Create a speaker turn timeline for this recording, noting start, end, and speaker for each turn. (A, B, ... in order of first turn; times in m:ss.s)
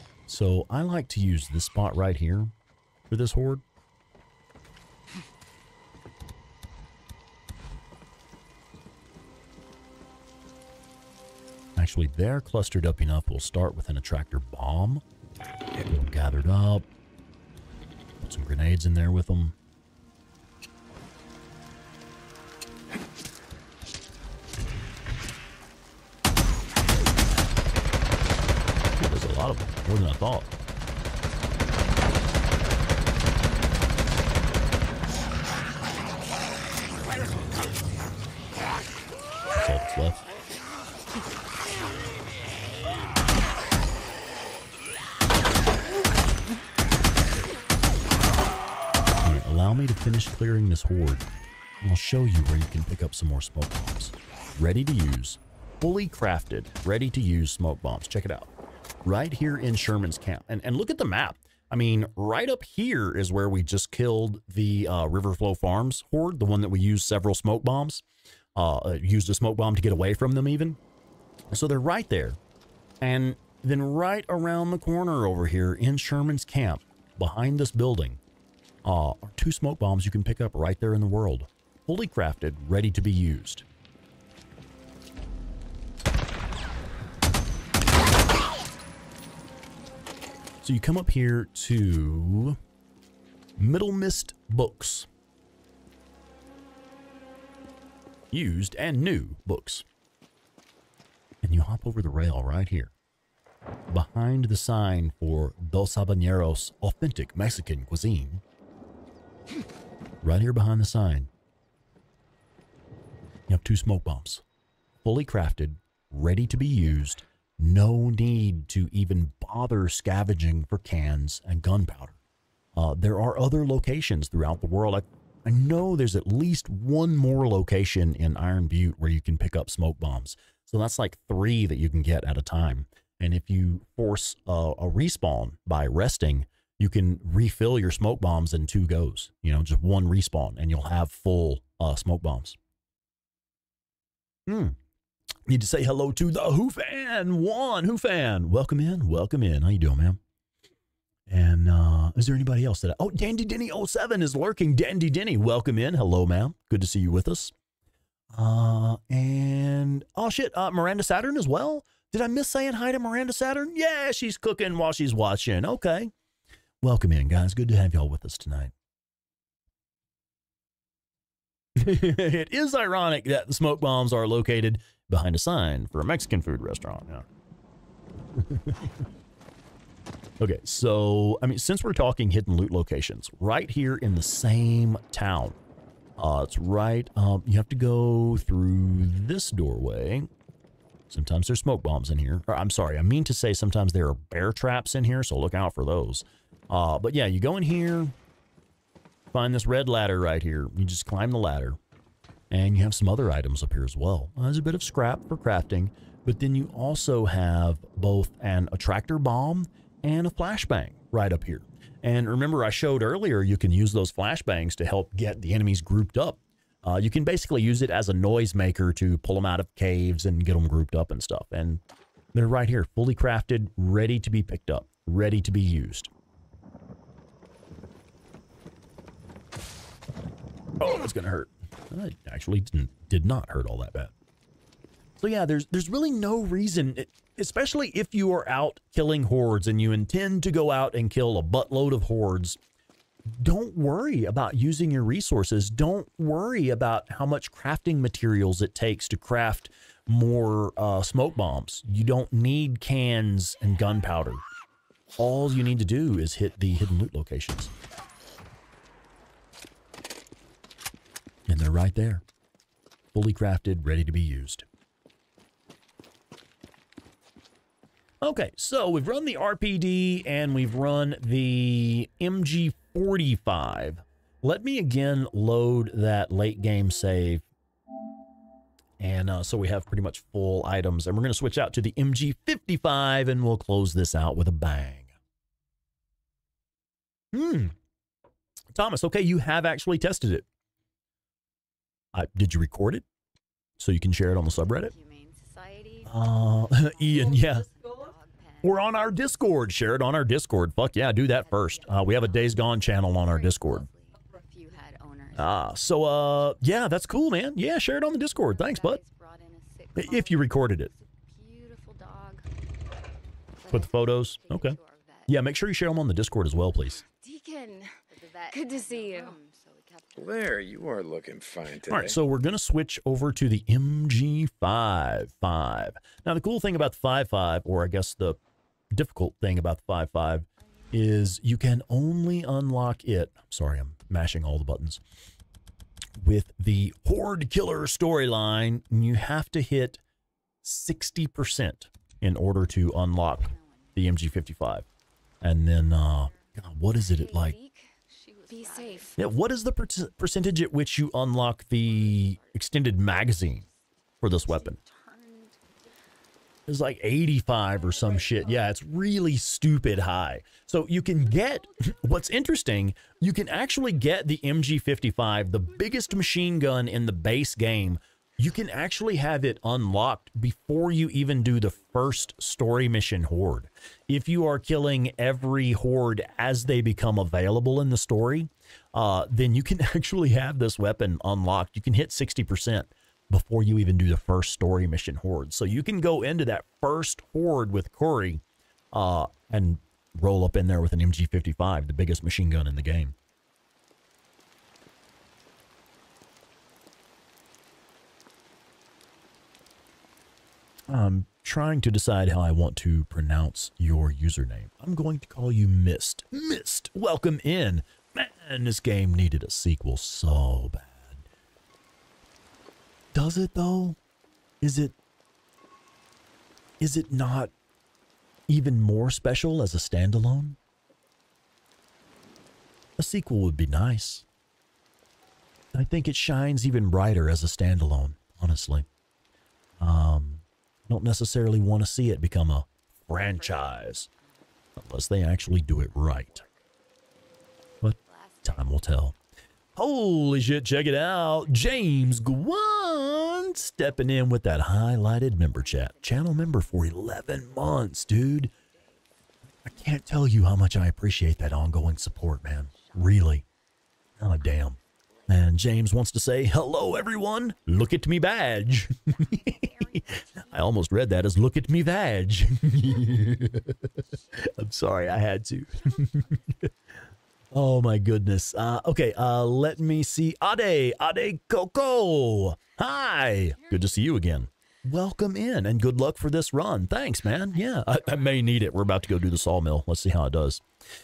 0:00.3-0:02.5 A
0:03.1-0:03.6 A
0:11.8-0:15.0 A
0:15.8-0:16.9 A
0:18.2-0:19.5 A
0:29.0-0:30.5 A
0:39.5-0:40.2 A
0:49.2-0:51.3 A
0:51.8-0:58.5 A
0:59.0-1:08.0 A
1:08.6-1:10.8 A
1:11.5-1:12.4 A
1:13.0-1:18.2 A
1:18.8-1:23.6 A
1:30.6-1:32.6 A
1:33.6-1:35.1 A
1:38.3-1:39.8 A
1:41.4-1:42.9 A
1:43.9-1:48.4 A
1:50.2-1:51.3 A
1:53.5-1:54.4 A
1:55.0-2:02.2 A
2:02.7-2:22.6 A
2:24.5-2:24.8 A
2:25.5-2:30.2 A
2:31.3-2:37.5 A
2:38.3-2:46.1 A
2:46.8-2:48.7 A
2:51.8-2:57.2 A
2:58.4-2:58.9 A
3:00.4-3:05.6 A
3:06.2-3:10.3 A
3:11.1-3:18.1 A
3:19.3-3:21.8 A
3:22.5-3:41.8 A
3:42.3-3:46.1 A
3:50.8-3:54.1 A
3:55.2-4:02.6 A
4:03.3-4:14.4 A
4:15.2-4:17.7 A
4:21.5-4:22.2 A
4:23.1-4:24.6 A
4:28.2-4:37.4 A
4:39.0-4:45.1 A
4:47.3-4:47.7 A
4:48.7-4:50.4 A
4:52.1-4:53.0 A
4:53.8-4:54.9 A
4:54.6-4:59.4 B
4:56.0-4:57.7 A
4:58.6-5:03.9 A
5:01.4-5:06.6 B
5:05.3-5:09.0 A
5:08.2-5:12.4 B
5:10.0-5:10.9 A
5:13.6-5:15.3 B
5:13.7-5:17.0 A
5:17.0-5:20.3 B
5:20.1-5:22.2 C
5:21.9-5:28.4 A
5:28.9-5:35.0 A
5:30.6-5:30.9 B
5:36.2-5:40.0 A
5:40.6-5:44.8 A
5:43.0-5:44.0 B
5:45.4-5:47.6 A
5:46.0-5:46.4 B
5:46.9-5:49.2 B
5:49.2-5:53.6 A
5:51.8-5:52.5 B
5:54.2-5:54.8 A
5:54.4-5:55.6 B
5:56.7-6:33.1 A
5:58.1-5:58.4 B
6:40.9-6:51.2 A
6:53.1-6:54.0 A
6:54.6-6:54.9 A
6:56.8-6:57.5 A
6:58.5-7:00.6 A
7:03.0-7:04.2 A
7:05.7-7:08.9 A
7:09.8-7:14.1 A
7:13.2-7:14.4 B
7:14.8-7:16.4 A
7:17.8-7:19.1 A
7:18.0-7:18.8 B
7:19.8-7:28.5 A
7:21.5-7:21.8 B
7:25.5-7:27.4 B
7:28.6-7:29.0 B
7:29.6-7:33.4 A
7:31.9-7:32.8 B
7:34.2-7:46.7 A
7:39.1-7:40.9 B
7:47.5-8:00.6 A
7:57.7-7:59.2 B